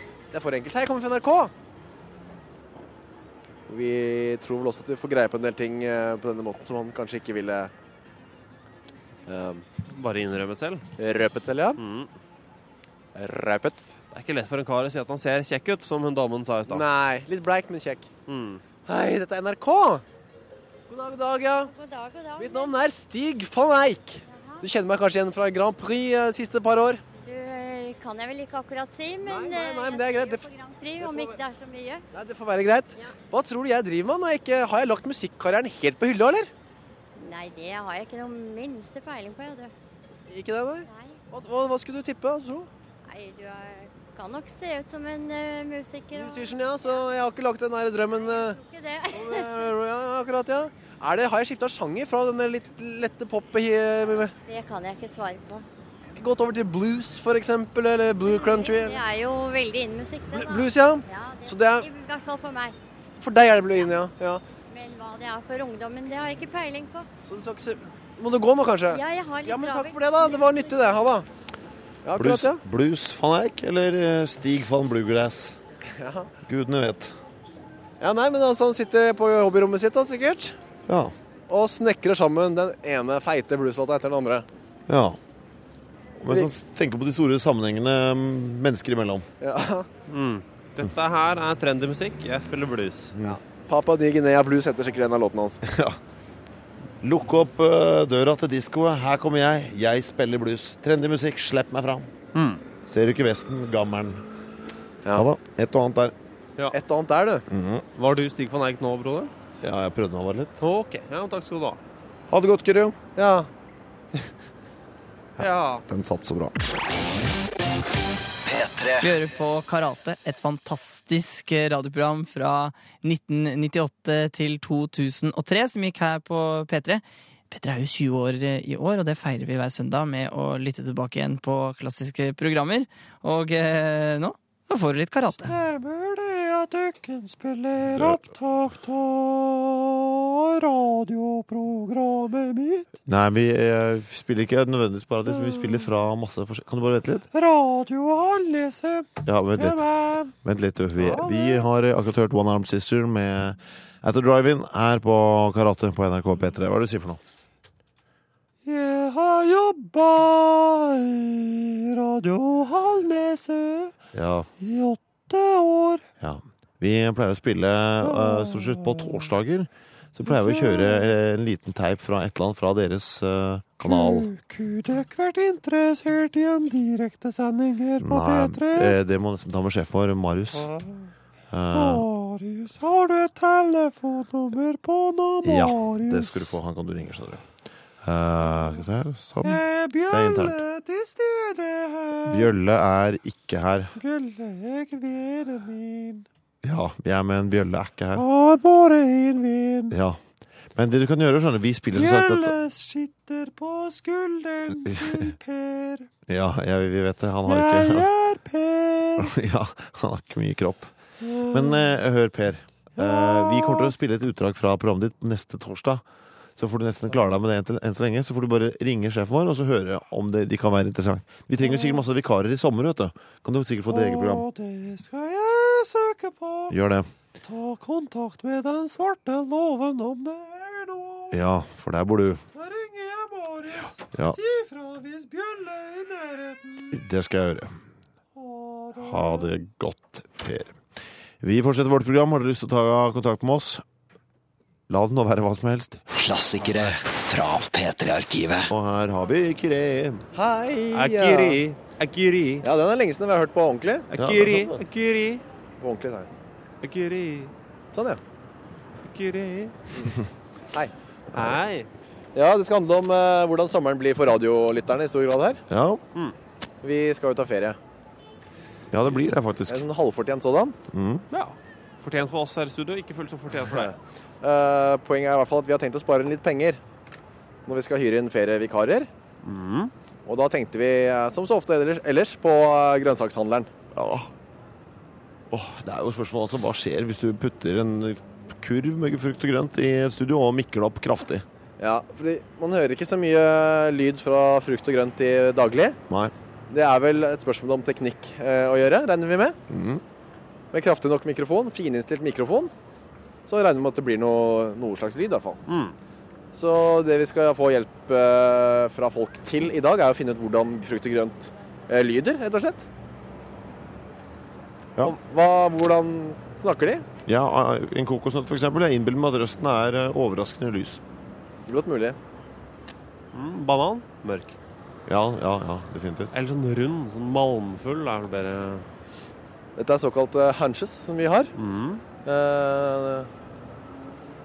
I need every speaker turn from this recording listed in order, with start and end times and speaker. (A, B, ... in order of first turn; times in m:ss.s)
0:00.3-0:01.5 A
0:03.7-0:07.7 A
0:09.3-0:09.7 A
0:09.9-0:10.9 B
0:11.0-0:11.8 A
0:11.8-0:12.1 B
0:13.2-0:13.8 A
0:14.1-0:16.8 B
0:16.7-0:18.1 A
0:18.3-0:18.6 B
0:18.9-0:20.0 A
0:20.9-0:21.7 A
0:21.6-0:22.8 C
0:22.4-0:27.0 A
0:24.3-0:24.7 C
0:27.2-0:32.0 C
0:29.2-0:30.5 A
0:31.0-0:31.4 A
0:32.1-0:36.5 A
0:37.2-0:39.7 C
0:40.3-0:42.7 A
0:40.8-0:41.2 C
0:43.0-0:47.1 C
0:46.1-0:48.6 A
0:48.1-0:49.7 C
0:49.1-0:54.3 A
0:54.5-0:55.7 C
0:56.2-0:59.0 A
0:58.2-1:02.8 C
1:00.3-1:01.9 A
1:03.2-1:04.4 A
1:03.7-1:04.0 C
1:04.7-1:07.1 C
1:07.2-1:11.3 A
1:08.9-1:11.1 C
1:12.0-1:12.6 A
1:12.2-1:15.6 D
1:15.9-1:16.3 A
1:16.4-1:17.1 D
1:18.0-1:20.6 A
1:20.9-1:21.1 D
1:21.5-1:24.5 A
1:24.9-1:25.2 D
1:26.2-1:29.3 D
1:29.4-1:29.9 A
1:30.1-1:33.1 B
1:33.2-1:35.6 A
1:35.6-1:36.0 D
1:37.0-1:42.1 D
1:42.3-1:42.6 B
1:42.9-1:44.2 D
1:45.1-1:46.2 D
1:46.7-1:47.4 A
1:47.5-1:47.8 D
1:48.0-1:49.3 B
1:49.6-1:50.6 D
1:50.6-1:51.8 B
1:52.3-1:53.0 D
1:53.2-1:53.5 A
1:55.4-1:55.8 B
1:55.4-1:56.6 D
1:58.5-1:59.1 E
1:59.0-2:15.5 F
2:15.3-2:23.0 G
2:17.9-2:18.2 D
2:23.1-2:27.3 D
2:25.3-2:25.9 G
2:27.3-2:30.3 G
2:29.2-2:29.9 D
2:30.4-2:37.2 D
2:31.0-2:31.7 G
2:38.6-2:44.0 G
2:44.1-2:44.5 D
2:44.6-2:46.1 G
2:46.2-2:54.3 D
2:48.0-2:49.3 G
2:50.2-2:51.1 G
2:53.8-2:59.0 G
2:58.0-3:00.7 D
3:00.6-3:01.1 G
3:01.5-3:02.1 D
3:01.7-3:06.5 G
3:05.4-3:07.4 D
3:08.0-3:10.6 D
3:09.4-3:12.5 G
3:12.2-3:14.0 D
3:14.0-3:16.3 G
3:16.6-3:18.2 D
3:18.2-3:20.0 G
3:19.9-3:20.2 D
3:20.8-3:22.5 D
3:21.9-3:26.1 G
3:24.9-3:25.2 D
3:26.3-3:28.1 D
3:27.4-3:29.3 G
3:29.2-3:30.9 D
3:31.2-3:32.0 G
3:31.5-3:36.0 D
3:33.0-3:33.9 G
3:36.6-3:44.5 D
3:41.6-3:42.0 G
3:43.9-3:46.8 G
3:46.7-3:47.1 D
3:47.4-3:51.4 G
3:51.3-3:52.4 D
3:52.5-3:57.0 G
3:54.1-3:54.4 D
3:56.9-3:57.7 D
3:58.4-3:59.5 G
3:59.0-4:00.8 D
4:01.4-4:03.8 D
4:04.9-4:06.0 D
4:06.1-4:08.7 E
4:08.7-4:10.2 D
4:10.4-4:11.6 A
4:10.9-4:12.7 B
4:12.6-4:14.1 A
4:14.1-4:15.4 B
4:14.2-4:14.8 D
4:15.8-4:16.3 A
4:16.8-4:17.5 B
4:17.9-4:18.2 A
4:19.0-4:19.8 B
4:21.3-4:21.6 D
4:21.3-4:21.9 B
4:22.4-4:25.6 A
4:25.7-4:26.0 D
4:26.8-4:27.8 A
4:28.9-4:29.9 D
4:29.7-4:30.8 A
4:30.9-4:31.2 D
4:31.3-4:34.0 B
4:34.4-4:36.8 A
4:37.7-4:39.1 A
4:39.4-4:39.9 B
4:40.3-4:43.7 A
4:43.9-4:44.3 D
4:45.5-4:51.5 D
4:51.8-4:56.0 A
4:56.1-4:56.3 D
4:56.7-4:59.6 A
4:59.7-5:00.0 D
5:00.7-5:02.7 A
5:03.5-5:05.6 A
5:05.7-5:06.0 B
5:06.5-5:12.8 A
5:15.0-5:17.1 A
5:17.2-5:21.0 D
5:21.7-5:22.2 A
5:23.3-5:24.6 B
5:25.1-5:26.3 D
5:26.3-5:28.9 B
5:29.8-5:31.5 A
5:31.6-5:32.0 B
5:32.2-5:33.3 A